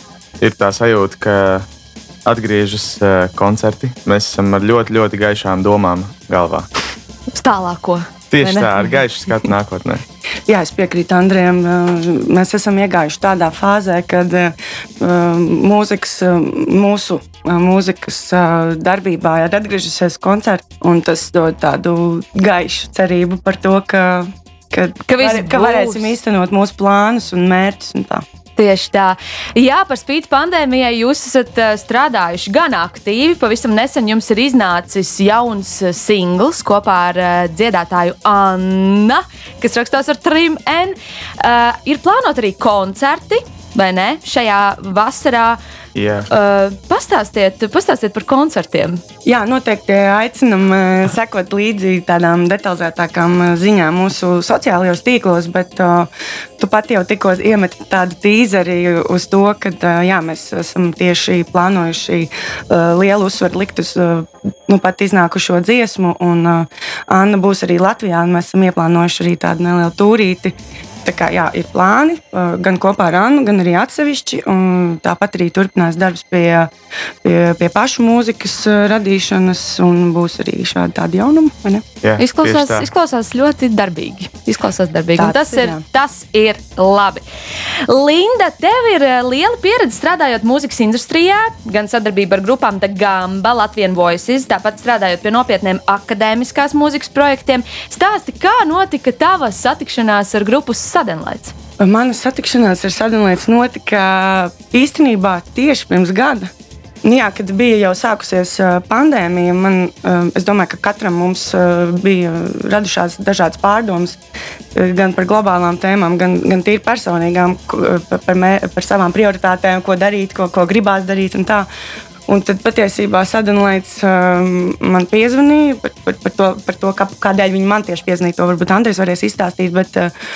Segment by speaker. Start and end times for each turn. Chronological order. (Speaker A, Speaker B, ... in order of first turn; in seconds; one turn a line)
Speaker A: 0.4-1.7
Speaker A: 2.2-6.7
Speaker B: 7.3-9.0
Speaker A: 8.3-10.0
Speaker C: 10.5-28.2
Speaker B: 25.1-26.1
Speaker B: 28.6-45.6
Speaker A: 45.9-46.3
Speaker B: 46.3-49.0
Speaker C: 49.2-76.7
Speaker C: 77.2-81.8
Speaker A: 82.0-82.9
Speaker B: 82.2-87.2
Speaker C: 85.2-85.8
Speaker B: 87.9-101.5
Speaker C: 101.8-106.5
Speaker C: 107.0-114.2
Speaker C: 114.7-121.7
Speaker C: 122.3-130.1